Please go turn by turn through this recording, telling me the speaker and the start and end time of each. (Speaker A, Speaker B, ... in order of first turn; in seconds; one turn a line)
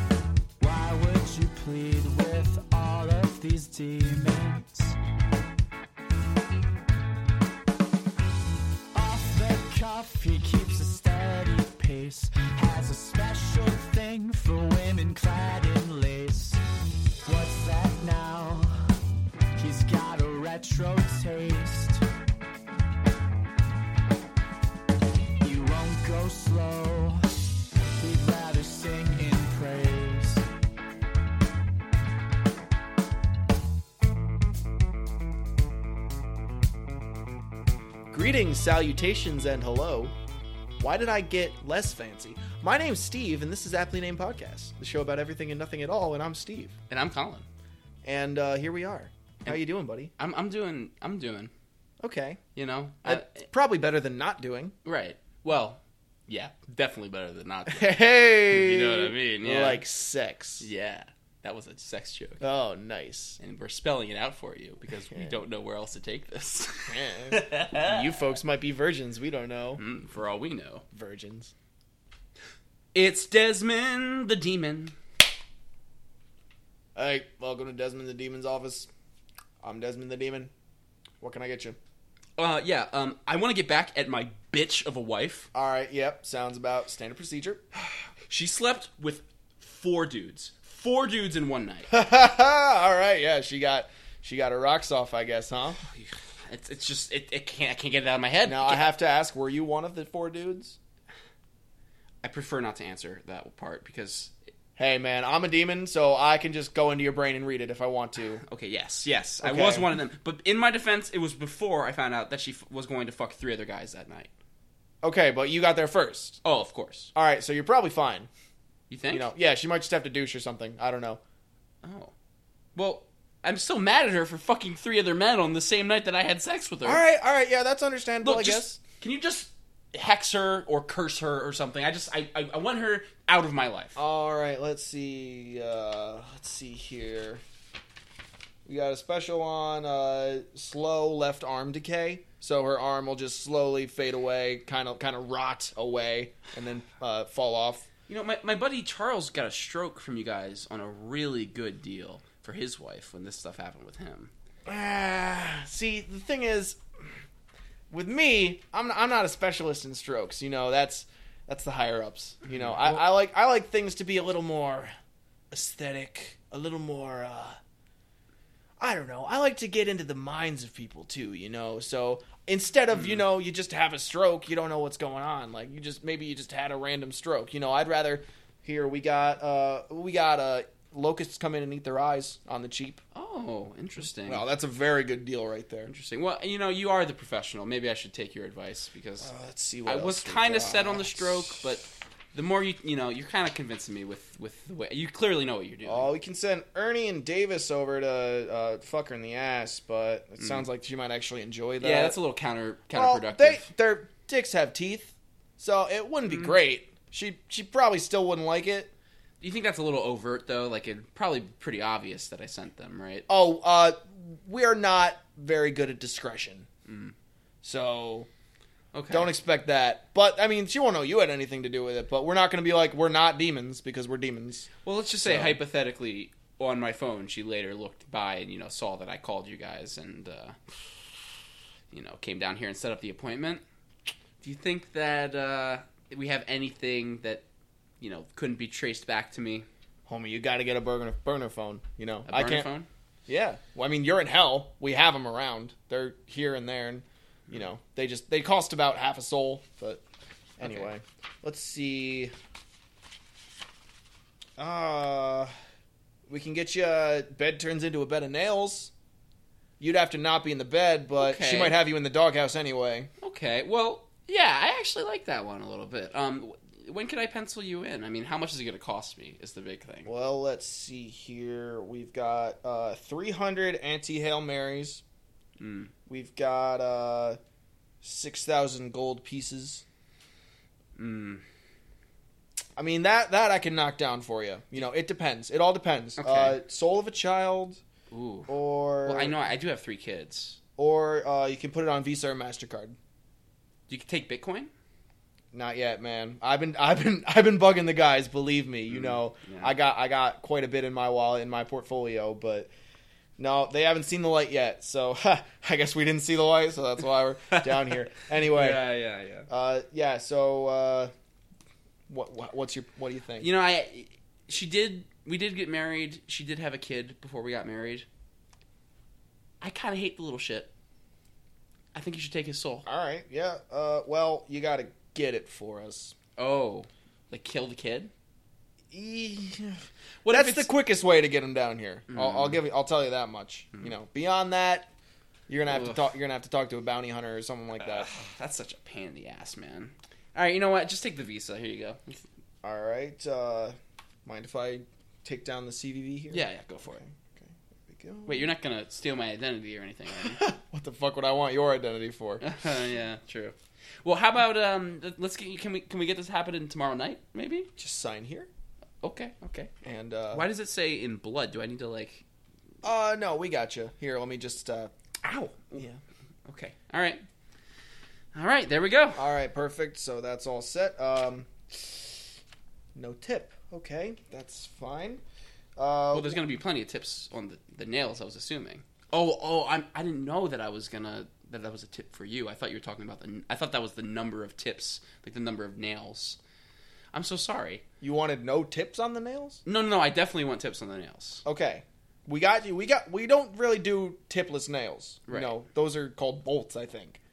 Speaker A: 0.6-5.0
Speaker A: 8.9-16.6
Speaker A: 17.2-18.8
Speaker A: 19.6-22.1
Speaker A: 25.4-27.3
Speaker A: 28.0-30.4
Speaker B: 38.1-40.1
Speaker B: 40.8-46.8
Speaker C: 46.9-47.5
Speaker B: 48.0-50.1
Speaker C: 50.2-51.5
Speaker B: 52.0-52.4
Speaker C: 52.5-53.5
Speaker B: 53.0-54.8
Speaker C: 54.9-59.8
Speaker B: 57.7-60.7
Speaker C: 60.6-62.5
Speaker B: 62.4-63.4
Speaker C: 63.4-68.2
Speaker B: 66.9-69.8
Speaker C: 69.8-70.8
Speaker B: 70.9-71.5
Speaker C: 72.9-75.0
Speaker B: 77.0-78.9
Speaker B: 79.6-80.5
Speaker B: 81.2-81.8
Speaker C: 82.4-85.5
Speaker B: 85.5-87.6
Speaker C: 88.3-91.9
Speaker B: 91.9-95.8
Speaker C: 95.9-98.9
Speaker B: 98.4-100.8
Speaker C: 102.2-104.3
Speaker B: 104.8-108.4
Speaker C: 108.4-114.3
Speaker B: 109.4-109.9
Speaker B: 115.0-116.4
Speaker C: 116.4-117.1
Speaker B: 117.2-118.3
Speaker C: 118.9-119.3
Speaker B: 119.1-121.2
Speaker C: 121.8-122.1
Speaker C: 122.8-127.0
Speaker B: 126.8-128.8
Speaker C: 128.2-134.0
Speaker B: 134.0-137.4
Speaker B: 138.7-147.9
Speaker C: 148.1-154.3
Speaker B: 154.7-157.2
Speaker B: 157.9-164.9
Speaker C: 162.5-163.0
Speaker B: 165.5-167.6
Speaker B: 168.8-183.0
Speaker C: 183.1-184.4
Speaker B: 184.2-185.9
Speaker C: 185.9-189.3
Speaker B: 189.2-191.8
Speaker C: 189.8-196.1
Speaker B: 195.8-202.2
Speaker C: 201.8-203.7
Speaker B: 202.9-208.9
Speaker C: 209.4-213.3
Speaker B: 213.3-216.7
Speaker C: 216.9-217.1
Speaker B: 217.6-218.3
Speaker C: 218.9-219.3
Speaker B: 219.1-224.7
Speaker C: 224.8-230.6
Speaker B: 225.2-225.6
Speaker C: 231.9-233.6
Speaker C: 234.4-237.4
Speaker C: 238.0-239.7
Speaker B: 240.1-242.7
Speaker C: 242.3-242.9
Speaker B: 243.3-250.0
Speaker B: 250.6-252.3
Speaker C: 250.6-250.9
Speaker B: 254.6-255.5
Speaker B: 256.3-258.9
Speaker B: 259.8-263.1
Speaker C: 261.2-261.8
Speaker C: 263.2-270.1
Speaker B: 270.1-275.0
Speaker C: 275.6-275.9
Speaker B: 276.1-277.4
Speaker B: 278.0-279.9
Speaker C: 281.0-281.4
Speaker B: 282.8-287.8
Speaker C: 286.2-286.6
Speaker C: 288.1-290.6
Speaker B: 288.5-289.4
Speaker B: 290.8-293.0
Speaker C: 293.9-294.7
Speaker B: 295.5-302.7
Speaker C: 298.9-299.7
Speaker B: 303.4-308.9
Speaker C: 308.4-309.5
Speaker B: 309.5-311.1
Speaker B: 312.1-313.5
Speaker C: 313.4-318.1
Speaker C: 319.6-320.7
Speaker C: 321.9-322.9
Speaker B: 322.9-326.2
Speaker C: 326.4-328.1
Speaker B: 328.9-334.9
Speaker C: 330.2-330.7
Speaker C: 332.1-332.6
Speaker B: 335.5-338.1
Speaker C: 335.7-336.1
Speaker C: 337.8-342.3
Speaker B: 342.6-348.5
Speaker C: 346.3-347.0
Speaker C: 348.3-350.4
Speaker B: 350.2-352.4
Speaker C: 352.4-357.7
Speaker B: 357.8-358.5
Speaker C: 359.0-359.7
Speaker B: 359.8-360.5
Speaker C: 360.3-362.2
Speaker B: 362.8-364.9
Speaker C: 365.2-365.8
Speaker C: 366.5-367.2
Speaker C: 368.3-369.3
Speaker B: 369.2-372.2
Speaker B: 372.9-375.2
Speaker B: 375.8-376.4
Speaker C: 376.1-386.4
Speaker C: 387.1-387.8
Speaker B: 388.0-389.6
Speaker C: 389.6-391.4
Speaker B: 391.4-397.2
Speaker C: 395.3-395.6